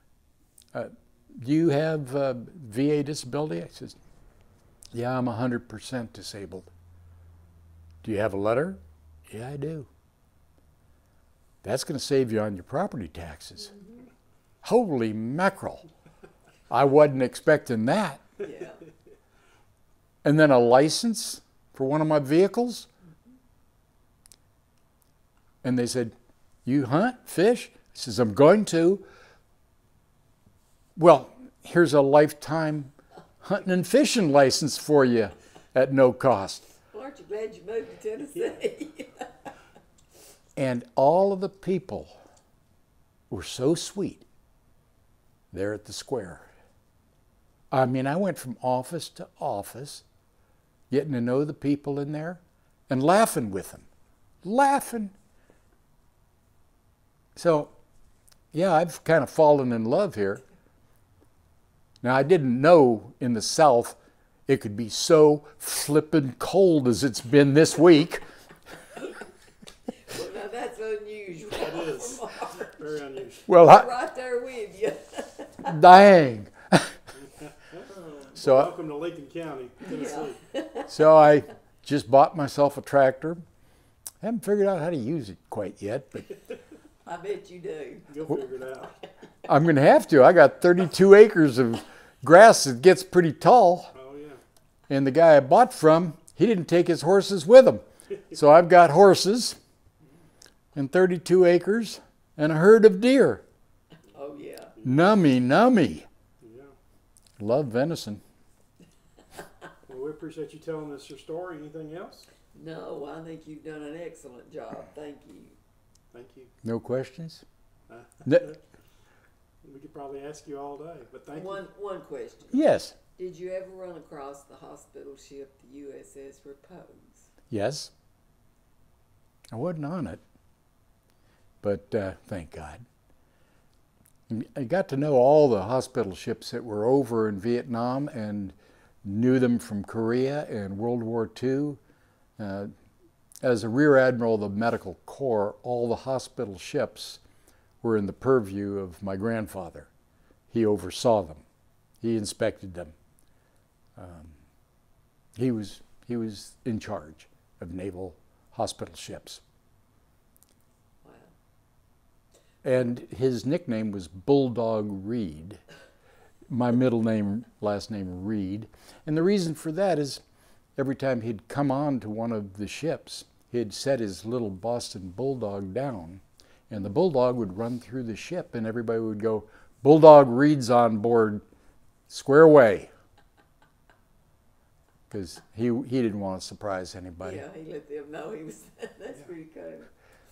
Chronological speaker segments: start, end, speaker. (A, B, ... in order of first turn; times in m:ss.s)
0:00.7-0:04.0 A
0:04.9-0:06.7 A
0:08.0-0:09.9 A
0:11.6-0:13.8 A
0:14.6-0:15.8 A
0:16.7-0:18.2 A
0:18.4-0:18.8 B
0:20.2-0:22.9 A
0:25.6-0:26.1 A
0:26.6-0:29.0 A
0:31.0-0:36.7 A
0:36.9-0:39.3 B
0:40.6-0:42.2 A
0:43.3-0:44.2 A
0:45.5-0:46.5 A
0:47.7-0:50.0 A
0:50.9-0:53.8 A
0:54.4-0:55.1 A
0:57.3-0:57.7 A
0:58.5-1:00.4 A
1:02.0-1:08.2 A
1:10.1-1:12.8 B
1:11.5-1:13.5 C
1:13.5-1:13.9 A
1:13.5-1:15.8 B
1:15.6-1:16.9 A
1:17.4-1:20.4 C
1:18.4-1:18.7 A
1:19.9-1:20.9 B
1:20.9-1:23.4 A
1:24.2-1:26.3 A
1:27.0-1:28.1 B
1:28.1-1:29.0 C
1:29.4-1:33.9 A
1:33.9-1:34.4 C
1:34.9-1:39.6 A
1:40.7-1:43.4 A
1:44.1-1:44.8 B
1:44.8-1:46.1 A
1:46.4-1:46.7 C
1:47.4-1:48.2 A
1:49.9-1:52.3 C
1:52.5-1:55.6 B
1:56.1-1:56.5 C
1:56.6-1:57.4 A
1:57.9-1:58.6 C
1:58.2-1:58.5 A
1:59.6-2:01.6 C
2:01.3-2:07.3 B
2:02.5-2:02.9 A
2:07.5-2:07.9 A
2:09.5-2:10.2 A
2:11.6-2:12.8 A
2:14.3-2:21.8 A
2:22.4-2:22.7 A
2:23.4-2:27.2 A
2:27.8-2:29.9 A
2:30.5-2:31.4 A
2:32.0-2:32.9 A
2:34.0-2:34.4 A
2:35.4-2:39.4 A
2:41.0-2:41.3 B
2:42.6-2:45.6 A
2:46.5-2:50.2 A
2:50.8-3:01.4 A
3:02.1-3:02.9 A
3:05.1-3:07.4 A
3:07.2-3:09.9 B